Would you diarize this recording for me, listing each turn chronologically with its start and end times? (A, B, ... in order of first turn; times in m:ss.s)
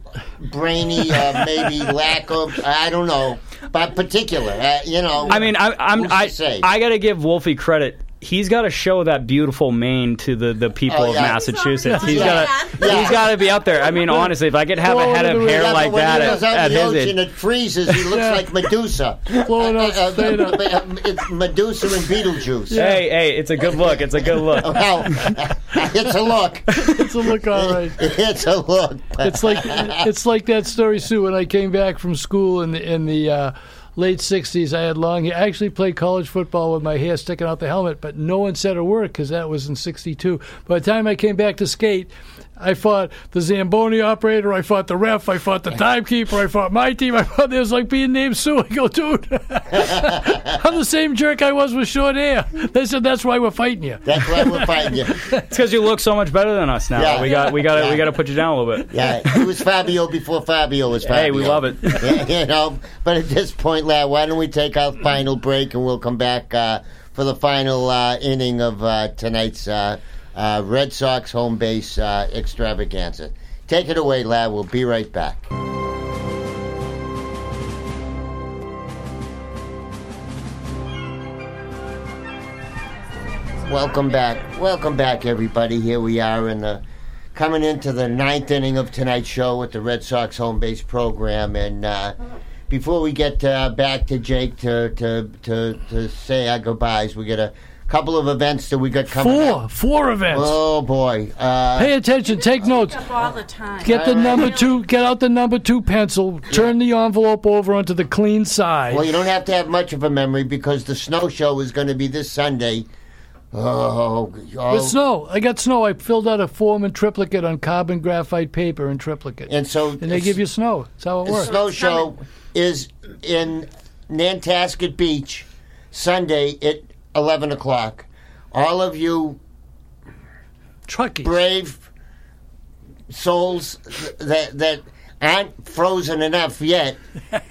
0:00.4-0:06.7 A
0:05.3-0:17.2 B
0:10.8-0:11.5 A
0:11.4-0:13.0 C
0:11.8-0:12.4 D
0:12.0-0:13.3 A
0:14.0-0:16.4 D
0:15.4-0:22.9 A
0:18.0-0:18.5 D
0:19.4-0:20.8 D
0:22.7-0:23.0 D
0:22.8-0:25.3 B
0:23.6-0:27.0 A
0:26.8-0:28.0 D
0:27.5-0:30.1 A
0:29.2-0:55.4 D
0:49.7-0:50.5 A
0:54.0-0:55.3 A
0:55.5-0:58.9 B
0:56.9-0:58.0 A
0:58.9-1:15.4 A
1:01.0-1:02.0 B
1:23.2-1:23.6 C
1:23.6-1:26.8 A
1:27.3-1:32.2 A
1:32.7-1:39.6 A
1:39.1-1:40.6 D
1:40.3-1:41.9 A
1:41.8-1:43.1 D
1:42.2-1:44.9 C
1:43.8-1:49.1 D
1:43.8-1:44.6 A
1:48.9-1:52.9 A
1:53.5-1:55.0 A
1:54.7-2:01.5 D
1:59.5-2:00.4 A
2:01.2-2:09.4 A
2:01.5-2:02.1 C
2:10.9-2:11.4 D
2:11.2-2:11.9 A
2:13.1-2:17.0 A